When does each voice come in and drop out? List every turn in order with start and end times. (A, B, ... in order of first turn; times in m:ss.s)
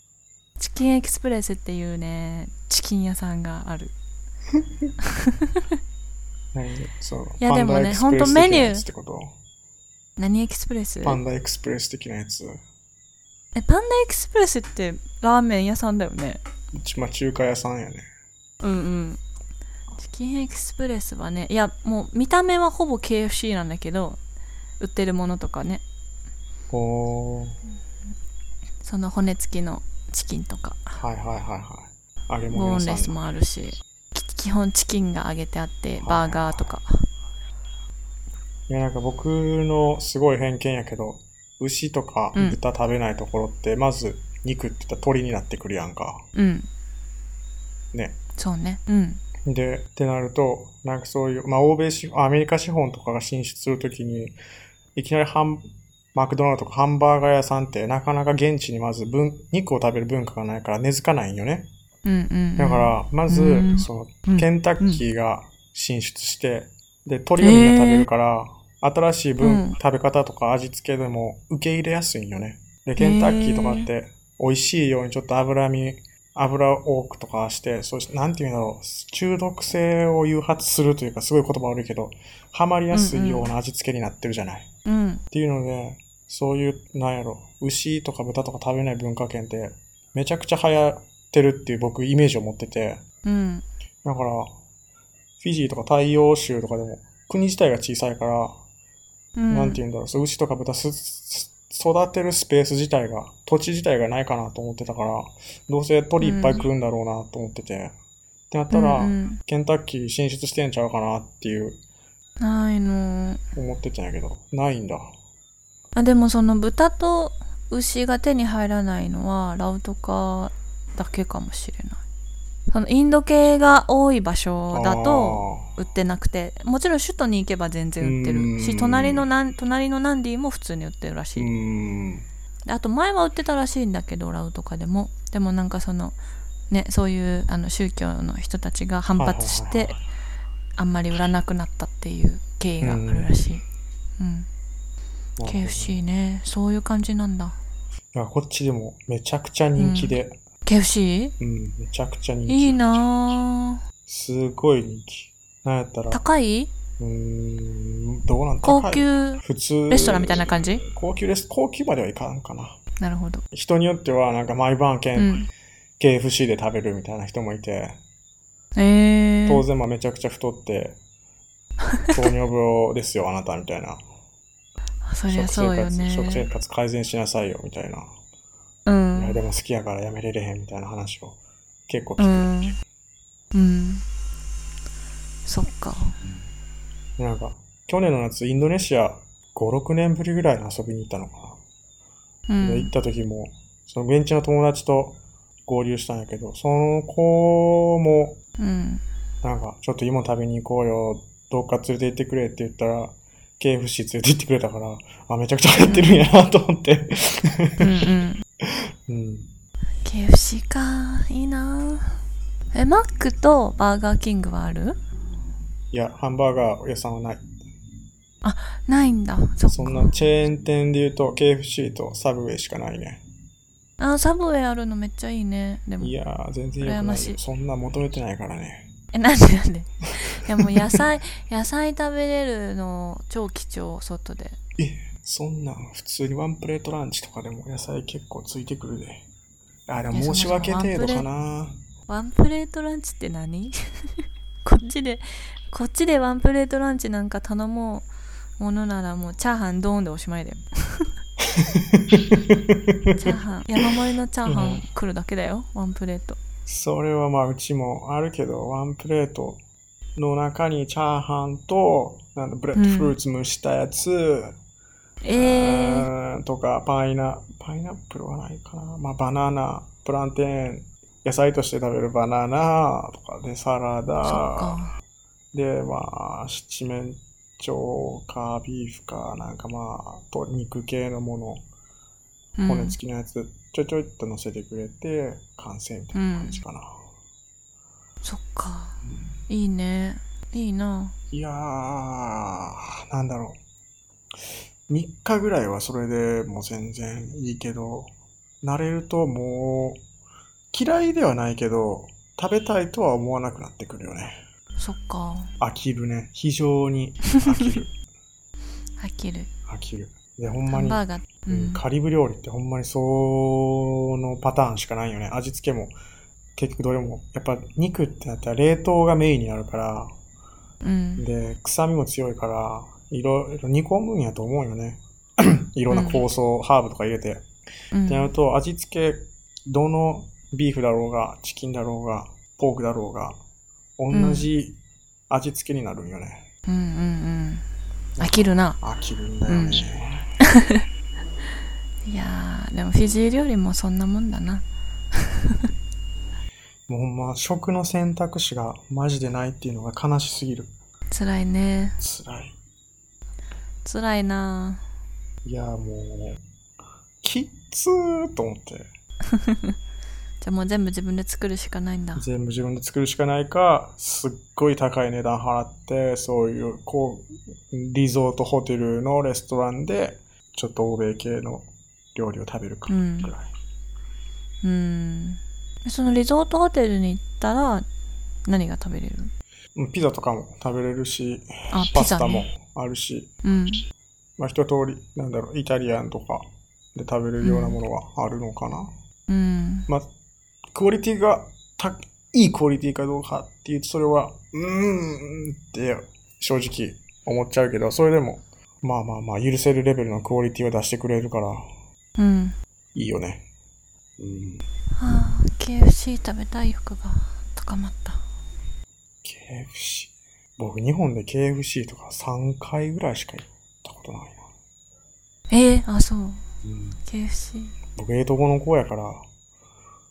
0:00.6-0:03.9 A
0:05.0-0:05.6 A
0:06.5-0:09.3 B
0:07.4-0:08.8 A
0:10.2-0:11.2 A
0:11.0-0:12.6 B
0:13.6-0:16.4 A
0:16.7-0:18.1 B
0:18.6-0:19.2 A
0:20.0-0:24.2 A
0:24.8-0:25.8 A
0:26.7-0:27.6 B
0:28.8-0:31.0 A
0:31.0-0:33.2 B
0:32.5-0:37.0 A
0:36.0-0:36.7 B
0:38.7-0:46.3 B
0:46.4-0:46.7 A
0:47.9-0:48.2 B
0:48.4-0:49.2 A
0:49.4-0:54.4 B
0:55.0-1:01.7 B
1:02.0-1:05.0 A
1:02.6-1:24.7 B
1:07.4-1:08.1 A
1:09.4-1:09.8 A
1:13.0-1:13.9 A
1:22.9-1:23.5 A
1:24.8-1:25.2 A
1:25.3-1:33.0 B
1:33.2-1:33.6 A
1:34.0-1:34.5 B
1:35.4-1:38.6 B
1:39.4-1:39.8 A
1:39.5-1:48.0 B
1:46.2-1:46.6 A
1:48.5-1:51.8 B
1:48.7-1:49.4 A
1:52.4-1:53.4 A
1:53.5-1:55.1 B
1:56.0-2:02.0 A
2:02.7-2:11.5 A
2:04.7-2:05.7 B
2:08.0-2:09.3 B
2:11.4-2:12.3 B
2:12.7-2:16.2 A
2:16.7-2:20.0 A
2:19.2-2:19.9 B
2:20.8-2:23.6 A
2:22.8-2:23.3 B
2:24.2-2:24.5 A
2:25.4-2:26.0 B
2:25.4-2:27.6 A
2:28.1-2:30.4 B
2:29.8-2:30.2 A
2:30.7-2:31.4 A
2:31.4-2:33.0 B
2:32.5-2:33.8 A
2:34.1-2:36.2 B
2:36.1-2:36.7 A
2:37.0-2:42.8 B
2:38.6-2:40.8 A
2:43.0-2:43.4 A
2:43.5-2:45.4 B
2:45.2-2:45.5 A
2:46.0-2:48.0 B
2:48.8-2:49.6 A
2:49.5-2:51.0 B
2:52.1-2:54.0 B
2:55.0-2:56.5 A
2:55.3-2:58.1 B
2:58.9-2:59.4 A
2:59.2-3:02.5 B
3:02.2-3:02.8 A
3:03.5-3:04.0 A
3:05.4-3:06.2 A
3:07.2-3:11.6 B
3:12.5-3:12.9 A
3:12.6-3:18.4 B
3:18.6-3:19.0 A
3:19.4-3:28.0 B
3:25.8-3:26.2 A
3:27.8-3:28.4 A
3:28.7-3:29.5 B
3:30.0-3:32.2 A
3:32.7-3:35.0 A
3:35.9-3:37.4 B
3:38.4-3:40.1 A
3:39.7-3:43.2 B
3:44.0-3:46.1 A
3:46.0-3:48.9 B
3:46.8-3:47.4 A
3:49.1-3:54.6 A
3:50.6-3:51.0 B
3:54.8-3:59.2 B
3:59.9-4:01.8 B
4:00.1-4:01.3 A
4:02.1-4:08.1 A
4:08.6-4:11.1 A
4:11.4-4:13.4 B
4:13.1-4:16.4 A
4:14.5-4:14.9 B
4:16.7-4:19.6 B
4:20.2-4:24.6 B
4:22.8-4:23.2 A
4:25.2-4:26.1 A
4:25.4-4:34.8 B
4:34.2-4:34.9 A
4:35.5-4:41.6 B
4:42.6-4:43.0 A
4:42.7-4:47.0 B
4:46.1-4:46.6 A
4:48.2-4:49.0 A
4:49.0-4:49.4 B
4:49.5-4:51.1 A
4:51.3-4:53.6 B
4:54.9-4:58.1 B
4:58.6-5:00.0 B
5:00.7-5:04.4 B
5:04.8-5:05.5 A
5:05.6-5:07.9 B
5:09.0-5:09.5 A
5:09.7-5:15.9 B
5:10.7-5:11.8 A
5:16.6-5:20.1 B
5:20.8-5:21.2 A
5:21.2-5:27.5 B
5:25.9-5:26.2 A
5:27.9-5:28.3 A
5:28.1-5:33.4 B
5:34.0-5:34.8 B
5:34.1-5:34.5 A
5:35.3-5:36.5 B
5:36.7-5:37.6 A
5:38.2-5:40.4 B
5:38.2-5:38.8 A
5:39.5-5:39.8 A
5:40.4-5:40.8 A
5:42.0-5:45.7 A
5:46.9-5:50.7 B
5:51.1-5:52.0 A
5:52.0-5:52.6 B
5:53.8-5:54.8 A
5:55.4-5:56.4 B
5:57.2-5:58.9 B
5:59.3-5:59.8 A
6:00.4-6:02.3 A
6:02.2-6:13.5 B
6:12.9-6:13.3 A
6:14.6-6:17.9 A
6:18.5-6:19.3 A
6:19.8-6:23.3 B
6:21.7-6:22.5 A
6:23.4-6:23.8 A
6:24.4-6:28.9 B
6:27.4-6:27.8 A
6:29.3-6:29.9 A
6:30.7-6:41.7 B
6:42.2-6:42.6 A
6:43.0-6:43.5 B
6:44.2-6:44.7 B
6:45.0-6:48.2 A
6:49.2-6:54.5 B
6:55.5-6:56.4 A
6:56.6-6:57.0 B
6:57.1-6:57.8 A
6:57.9-6:59.2 B